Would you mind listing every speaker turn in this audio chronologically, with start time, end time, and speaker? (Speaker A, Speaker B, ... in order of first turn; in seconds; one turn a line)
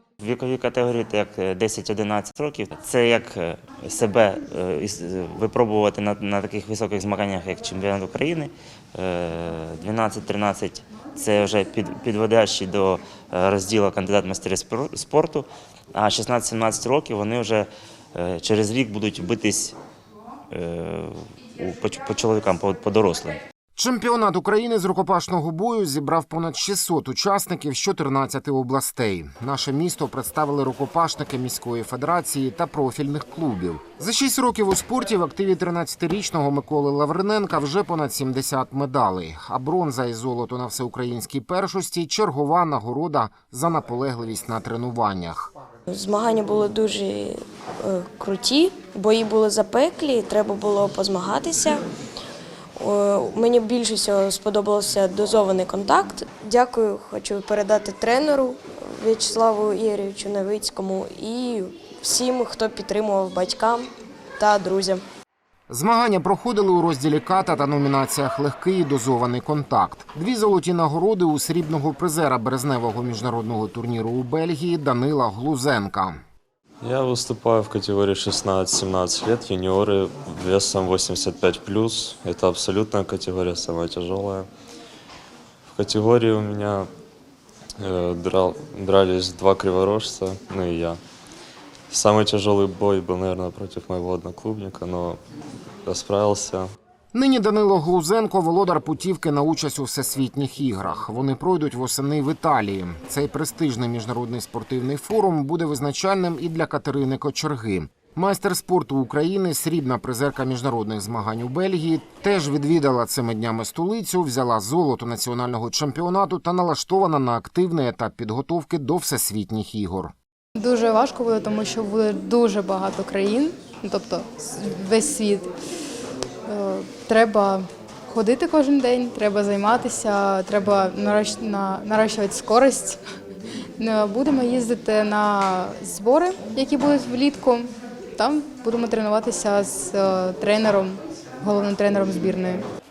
Speaker A: 0.2-19.8
Speaker A: 20.5-23.4
Speaker B: 23.8-45.5
Speaker C: 45.9-51.8
Speaker C: 52.8-65.0
Speaker B: 65.7-76.2
Speaker D: 76.8-84.5
Speaker D: 85.7-86.9
Speaker D: 87.8-91.0
Speaker D: 91.9-95.2
Speaker D: 95.8-96.7
Speaker B: 97.1-120.1
Speaker E: 120.6-125.5
Speaker E: 126.5-133.0
Speaker E: 133.8-142.6